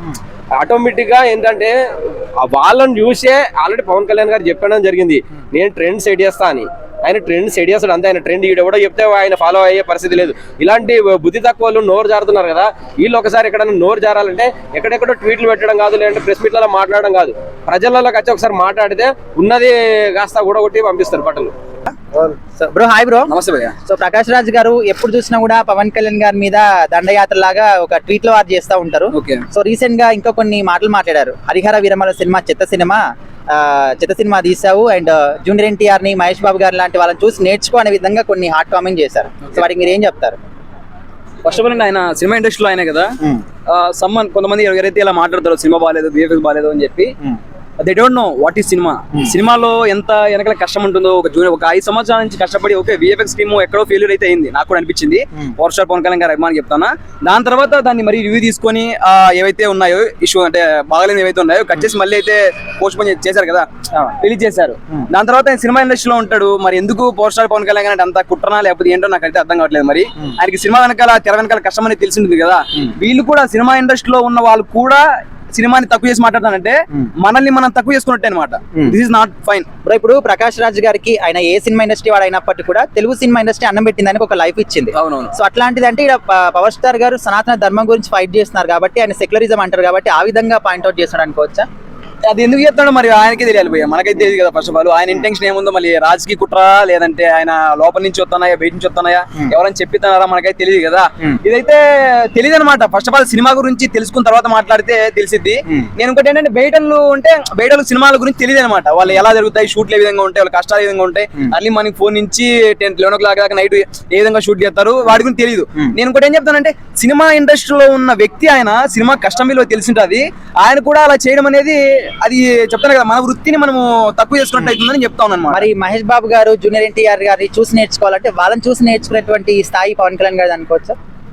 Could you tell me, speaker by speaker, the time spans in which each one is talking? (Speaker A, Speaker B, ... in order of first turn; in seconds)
Speaker A: 0.6-21.5
Speaker B: 22.2-23.3, 23.9-33.0, 33.5-40.4, 79.8-91.7, 125.5-131.0
Speaker C: 23.3-23.7, 29.1-29.4, 41.4-43.1, 43.7-47.1, 47.8-63.7, 64.2-79.7, 85.0-85.3, 92.3-125.7